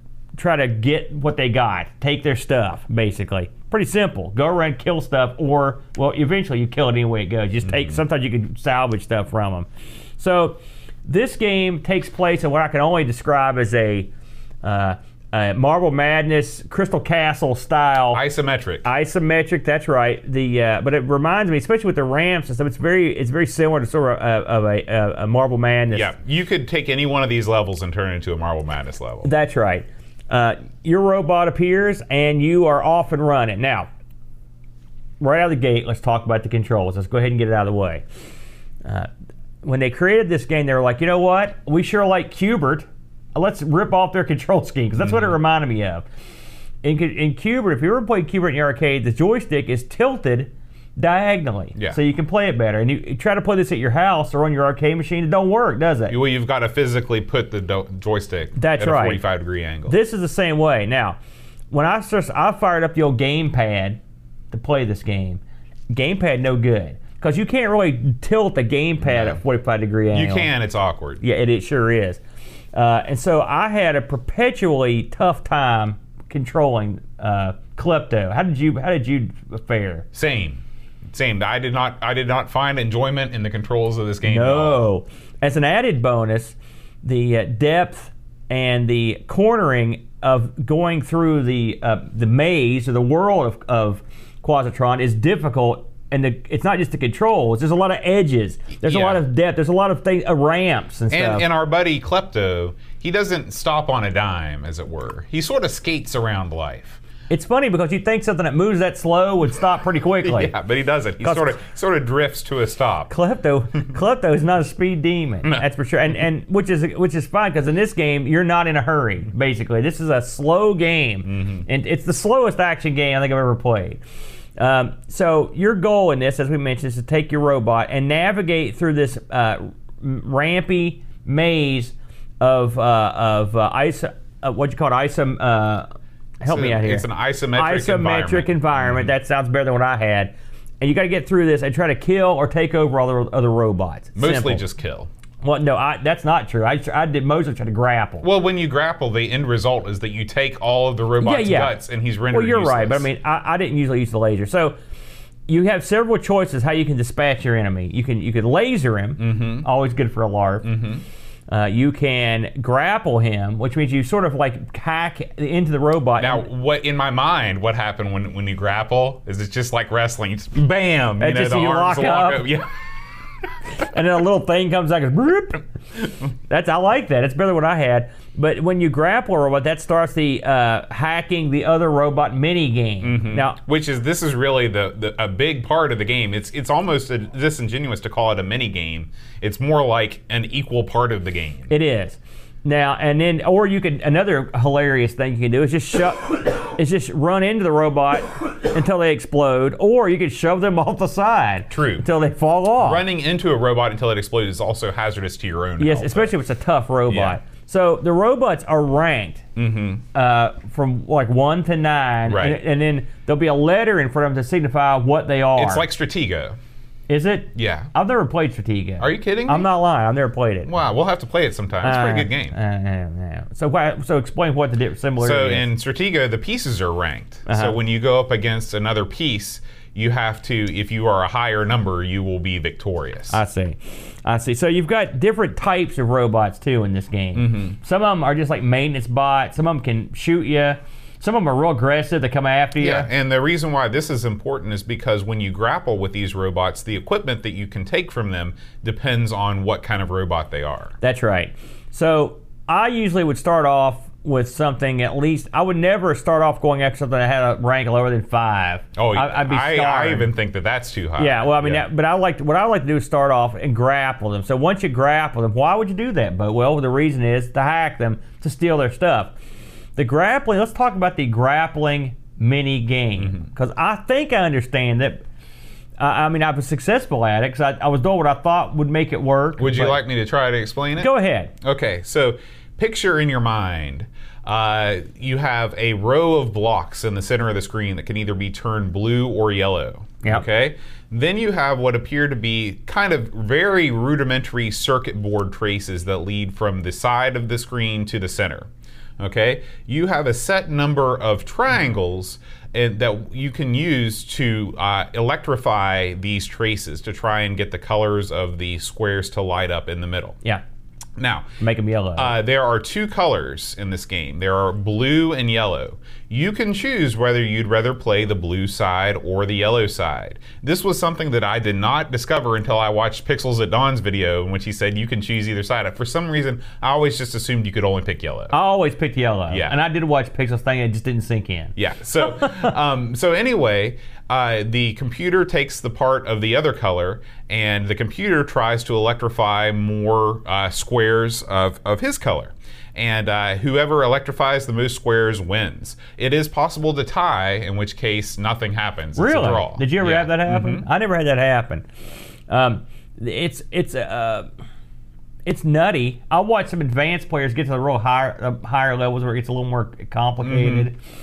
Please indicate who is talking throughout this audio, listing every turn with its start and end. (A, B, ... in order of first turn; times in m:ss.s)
0:00.4-0:09.7 A
0:07.6-0:08.0 B
0:10.2-0:14.1 A
0:14.6-0:18.2 A
0:18.1-0:18.8 B
0:18.8-0:26.1 A
0:25.9-0:29.3 B
0:29.2-0:33.9 A
0:35.2-0:38.0 A
0:39.6-0:46.0 A
0:45.0-0:45.3 B
0:46.8-0:56.1 A
0:56.1-1:00.0 B
0:58.6-0:59.2 A
0:59.9-1:01.2 A
1:01.7-1:04.0 A
1:04.5-1:10.5 A
1:09.0-1:09.4 B
1:10.1-1:11.2 B
1:11.2-1:12.2 A
1:12.7-1:20.0 A
1:20.1-1:20.6 B
1:21.1-1:24.8 B
1:24.2-1:41.4 A
1:38.8-1:39.2 B
1:41.1-1:47.0 B
1:47.3-1:50.5 A
1:50.2-1:53.1 B
1:51.2-1:51.6 A
1:53.1-2:04.0 A
2:01.3-2:01.6 B
2:04.6-2:15.9 A
2:16.4-2:24.6 A
2:16.4-2:19.1 B
2:24.2-2:25.1 B
2:25.4-2:28.2 A
2:28.2-2:33.0 B
2:31.2-2:31.8 A
2:32.3-2:34.8 A
2:35.5-2:40.7 A
2:39.2-2:39.6 B
2:40.6-2:41.0 B
2:41.5-2:46.4 A
2:46.2-2:52.7 B
2:51.2-2:52.5 A
2:53.8-2:55.6 A
2:56.5-3:03.6 A
3:03.0-3:11.7 B
3:11.7-3:23.0 A
3:21.7-3:22.0 B
3:22.8-3:26.3 B
3:25.8-3:29.4 A
3:27.1-3:27.4 B
3:29.6-3:30.0 B
3:30.1-3:35.8 A
3:32.3-3:32.6 B
3:35.6-3:36.6 B
3:37.1-3:40.7 A
3:37.6-3:37.9 B
3:39.0-3:39.7 B
3:40.7-3:42.6 B
3:41.8-3:45.7 A
3:45.2-3:53.4 B
3:47.5-3:47.8 A
3:53.3-4:03.1 A
3:57.3-3:57.7 B
4:02.8-4:10.9 B
4:11.0-4:20.3 A
4:19.0-4:21.8 B
4:21.2-4:29.3 A
4:30.0-4:35.2 A
4:36.0-4:40.0 A
4:39.6-5:10.4 B
4:41.0-4:41.5 A
5:11.2-5:11.5 B
5:11.6-5:12.3 A
5:12.2-5:28.5 B
5:28.5-5:32.7 A
5:29.5-5:29.8 B
5:31.8-5:50.8 B
5:49.2-5:51.8 A
5:52.5-5:54.5 A
5:55.4-6:01.0 A
6:00.4-6:00.9 B